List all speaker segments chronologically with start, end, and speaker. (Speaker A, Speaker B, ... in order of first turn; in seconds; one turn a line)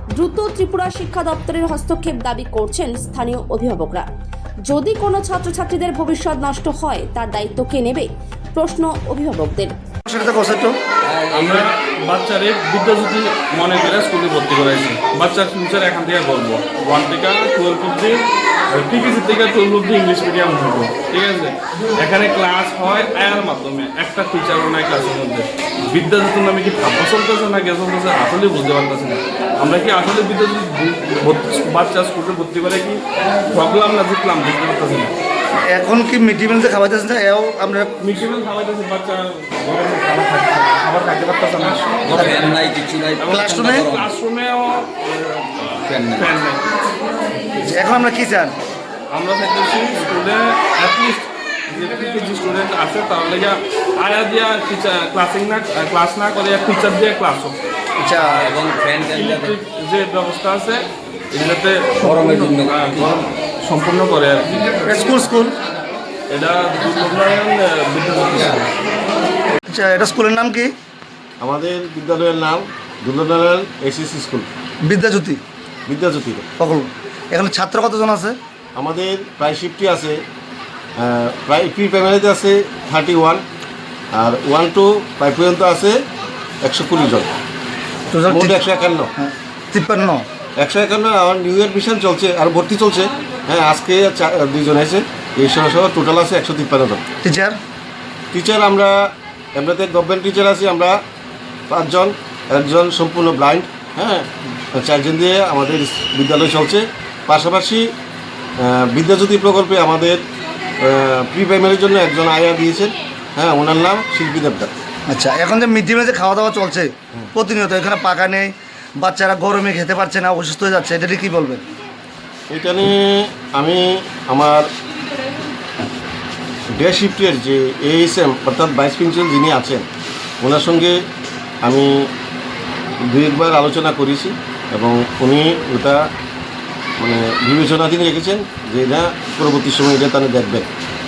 Speaker A: 0.1-4.0
Speaker A: 4.7-9.7
Speaker B: 10.1-10.7
Speaker C: 11.1-11.3
Speaker D: 11.3-35.1
Speaker B: 35.6-37.9
Speaker D: 38.0-46.7
Speaker C: 42.2-43.2
Speaker B: 43.3-43.9
Speaker C: 45.9-46.2
Speaker B: 47.6-48.5
Speaker D: 49.1-57.6
Speaker B: 58.0-58.5
Speaker C: 58.4-59.5
Speaker D: 58.9-64.5
Speaker C: 62.1-62.7
Speaker B: 64.8-65.5
Speaker D: 66.3-68.7
Speaker B: 69.7-70.7
Speaker E: 71.4-74.5
Speaker B: 74.8-75.4
Speaker E: 75.8-76.5
Speaker B: 76.6-78.3
Speaker E: 78.8-80.2
Speaker E: 81.0-83.4
Speaker E: 84.1-86.0
Speaker E: 86.6-87.3
Speaker B: 88.1-88.6
Speaker E: 88.3-89.1
Speaker B: 89.2-90.2
Speaker E: 90.6-97.0
Speaker B: 97.2-97.5
Speaker E: 98.3-99.0
Speaker E: 99.5-101.0
Speaker E: 101.7-107.9
Speaker E: 108.6-110.2
Speaker E: 110.8-114.7
Speaker B: 115.1-121.6
Speaker E: 122.5-124.7
Speaker E: 126.8-129.8
Speaker E: 130.4-131.0
Speaker E: 131.6-132.1
Speaker E: 133.1-136.0
Speaker E: 137.0-140.7